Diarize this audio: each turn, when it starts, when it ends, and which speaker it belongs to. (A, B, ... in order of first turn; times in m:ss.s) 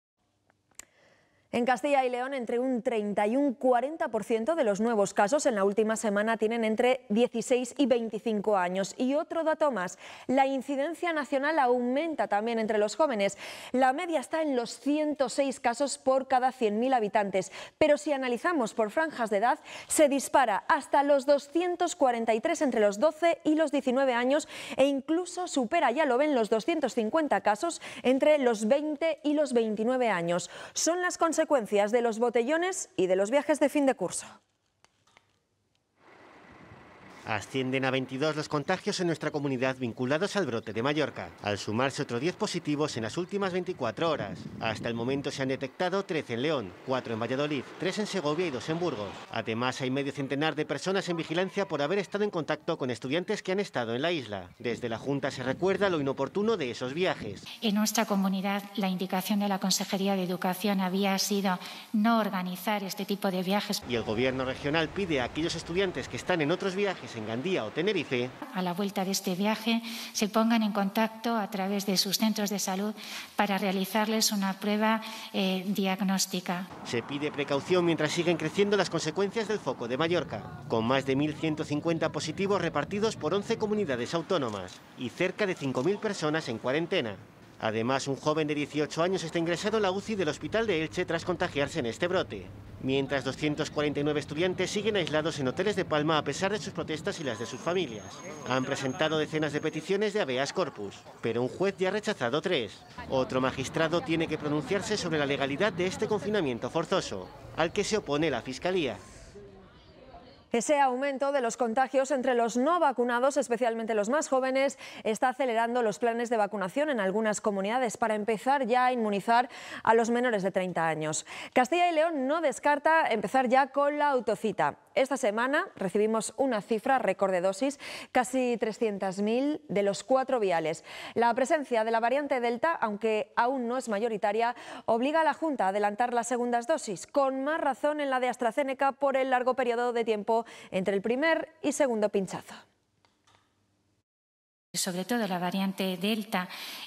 0:01.5-0:34.3 A
0:37.2-0:57.4 B
0:57.6-1:03.8 C
1:03.8-1:08.3 B
1:08.4-1:16.7 C
1:16.8-1:49.0 B
1:50.5-2:22.6 A
2:24.8-2:26.5 C